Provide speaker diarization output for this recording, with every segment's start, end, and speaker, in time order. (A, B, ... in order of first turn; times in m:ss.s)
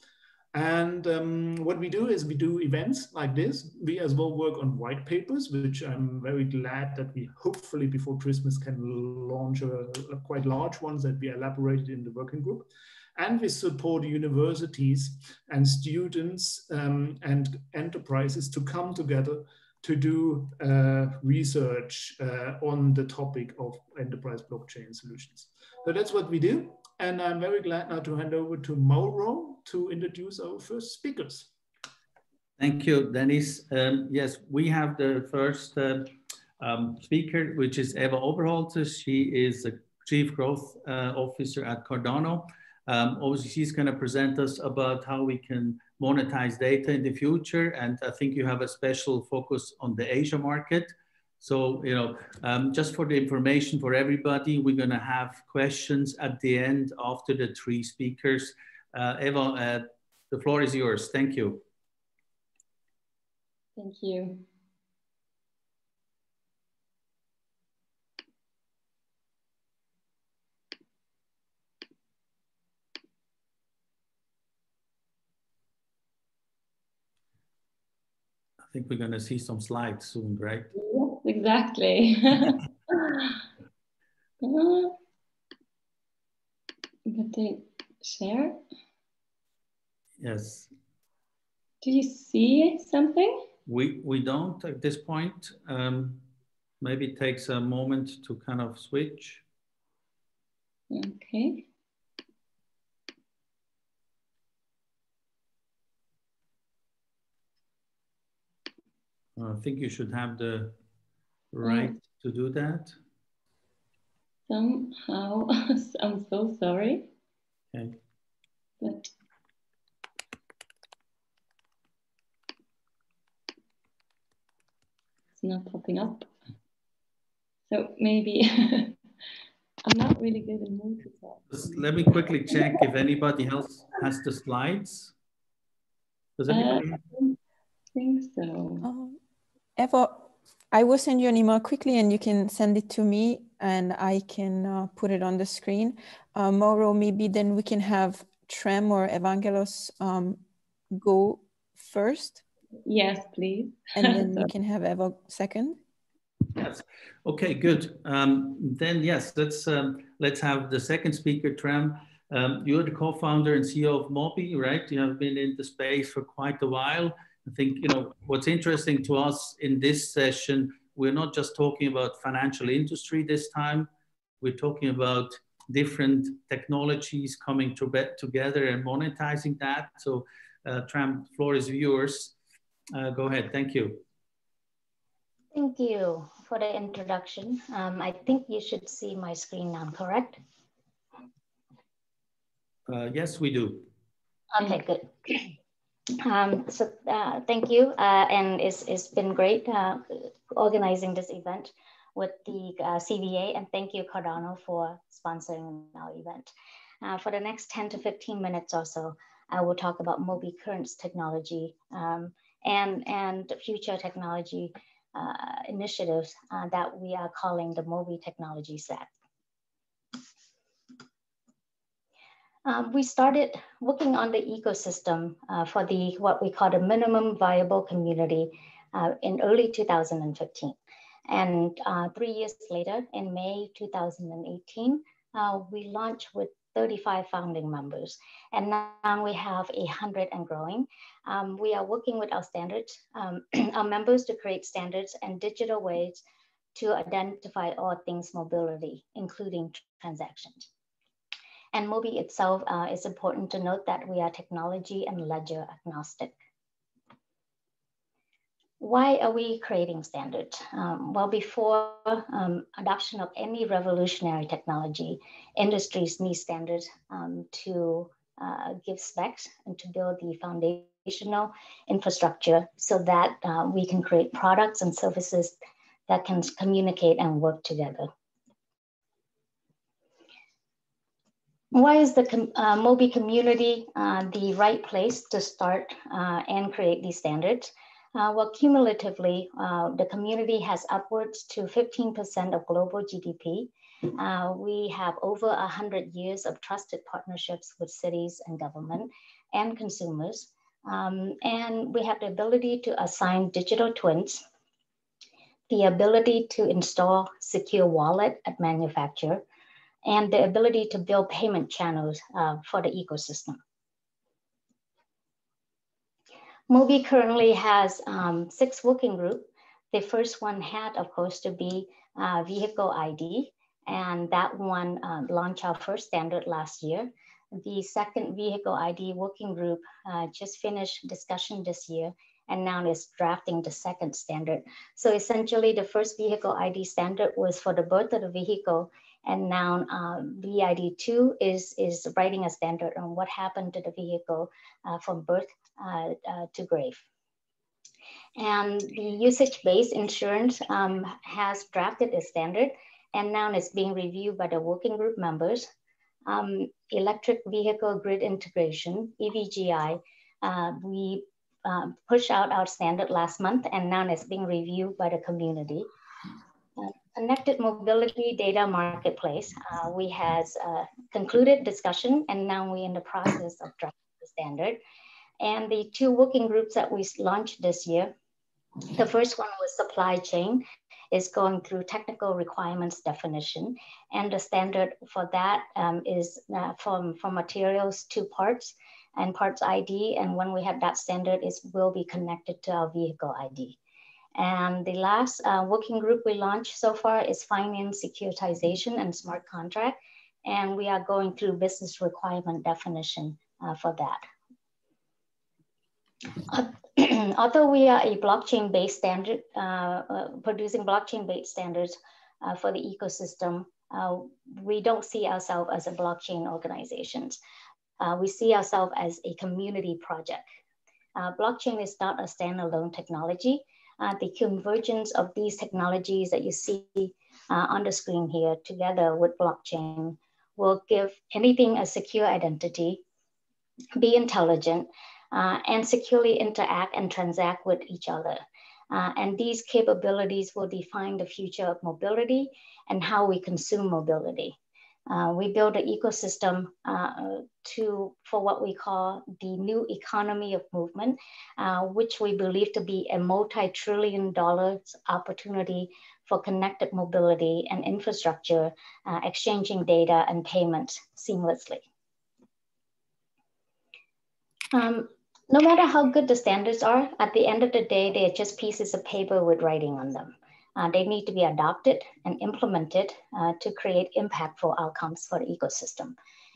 0:00.5-0:31.5 A
0:32.6-1:01.6 B
1:03.8-1:04.4 C
1:18.6-1:20.7 B
1:20.8-1:23.4 C
1:24.4-1:25.0 C
1:27.1-1:28.6 C
1:30.2-1:30.7 B
1:31.8-1:33.4 C
1:33.7-1:36.3 B
1:36.8-1:39.4 B
1:40.9-1:41.7 C
1:49.4-1:50.8 B
1:51.5-1:53.0 B
1:51.6-1:52.0 C
1:54.5-1:57.1 C
1:58.8-1:59.1 C
2:05.4-2:06.3 C
2:07.7-2:09.0 C
2:09.8-2:11.5 C
2:11.5-2:15.1 B
2:16.4-2:17.0 B
2:16.5-2:17.4 C
2:18.0-2:18.8 C
2:18.8-2:19.2 D
2:19.8-2:32.4 D
2:32.9-2:34.5 C
2:34.0-2:35.8 D
2:36.6-2:53.9 B
2:54.4-3:02.3 B
3:02.9-3:04.0 B
3:05.5-3:10.4 E
3:12.9-3:13.9 B
3:14.6-3:15.5 E
3:16.2-3:26.5 E
3:27.0-3:39.1 E
3:42.6-3:50.8 E
3:51.3-4:06.2 E
4:06.8-4:10.7 E
4:11.7-4:16.3 E
4:18.8-4:35.6 E
4:36.1-4:38.1 E
4:41.7-5:04.4 E
5:05.7-5:09.4 E
5:10.0-5:13.6 E
5:16.7-5:47.0 E
5:48.4-5:55.7 E
5:56.3-6:05.9 E
6:06.8-6:14.8 E
6:15.4-6:18.1 E
6:18.9-6:33.8 E
6:34.4-6:44.2 E
6:46.5-6:57.4 E
6:58.0-7:00.4 E
7:01.2-7:13.0 E
7:14.0-7:24.6 E
7:25.1-7:41.8 E
7:44.7-7:56.1 E